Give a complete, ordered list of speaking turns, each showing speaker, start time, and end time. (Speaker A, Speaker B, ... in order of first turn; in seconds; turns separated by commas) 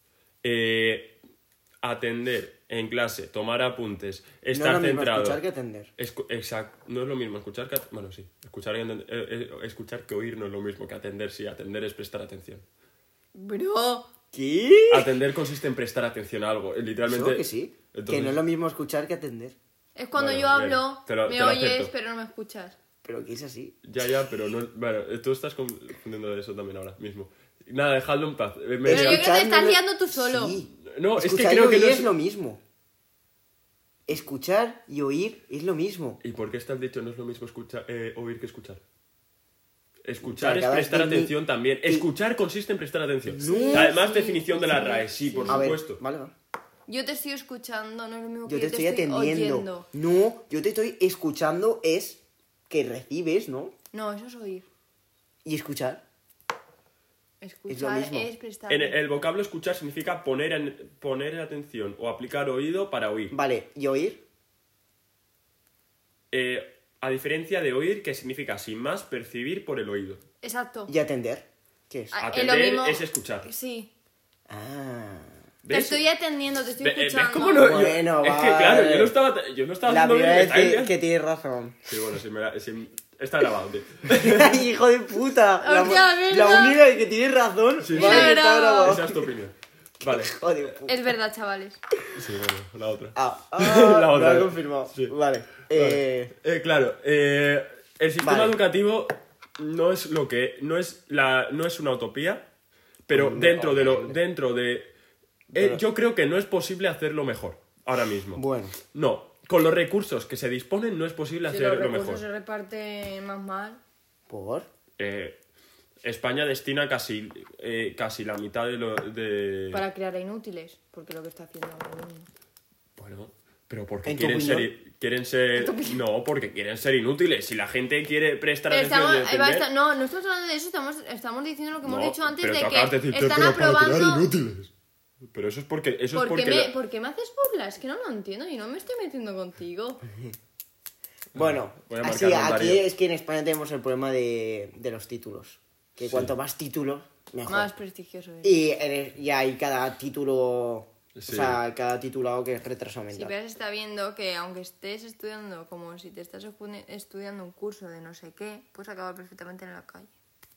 Speaker A: 0.4-1.1, Speaker A: 1.8-5.4, Speaker B: 4.5-5.9, Speaker A: 6.0-12.7, Speaker C: 13.3-14.1, Speaker B: 14.3-15.1, Speaker A: 14.9-18.4, Speaker B: 17.1-19.6, Speaker C: 20.0-22.8, Speaker A: 20.1-21.9, Speaker B: 23.0-23.8, Speaker A: 23.8-29.3, Speaker B: 28.9-32.6, Speaker C: 28.9-30.6, Speaker A: 30.8-32.1, Speaker B: 34.1-36.2, Speaker A: 36.2-38.8, Speaker A: 40.0-46.0, Speaker B: 40.2-42.1, Speaker B: 43.3-43.9, Speaker C: 43.4-45.7, Speaker B: 45.5-46.3, Speaker C: 46.9-49.9, Speaker B: 48.5-53.7, Speaker C: 53.9-54.7, Speaker B: 55.5-56.0, Speaker C: 57.4-59.0, Speaker B: 57.7-58.3, Speaker A: 58.7-63.4, Speaker B: 63.3-64.2, Speaker A: 66.3-70.2, Speaker C: 70.4-70.9, Speaker B: 70.9-72.2, Speaker C: 72.1-73.9, Speaker A: 72.2-73.5, Speaker B: 74.5-75.4, Speaker A: 75.7-76.0, Speaker C: 75.7-77.8, Speaker A: 76.8-81.0, Speaker B: 77.6-79.2, Speaker B: 79.9-81.9, Speaker A: 81.9-84.6, Speaker B: 84.2-89.2, Speaker C: 85.6-86.8, Speaker A: 87.8-90.4, Speaker C: 87.9-89.0, Speaker B: 90.0-91.0, Speaker C: 90.9-91.8, Speaker A: 92.2-95.1, Speaker B: 93.2-96.3, Speaker A: 95.7-102.5, Speaker B: 98.2-98.6, Speaker A: 103.1-104.9, Speaker B: 103.1-104.2, Speaker B: 105.5-105.8, Speaker A: 105.5-112.2, Speaker B: 108.4-108.8, Speaker C: 111.5-113.8, Speaker B: 114.3-114.7, Speaker A: 115.0-115.4, Speaker A: 116.0-119.8, Speaker C: 119.7-122.3, Speaker A: 123.0-129.7, Speaker B: 124.0-124.7, Speaker C: 125.6-126.0, Speaker C: 128.7-134.3, Speaker A: 131.8-134.7, Speaker A: 135.3-136.7, Speaker C: 136.1-140.0, Speaker A: 141.3-142.9, Speaker B: 141.3-147.7, Speaker A: 146.0-146.3, Speaker C: 147.5-148.7, Speaker B: 148.4-153.3, Speaker A: 151.2-151.6, Speaker C: 153.1-160.1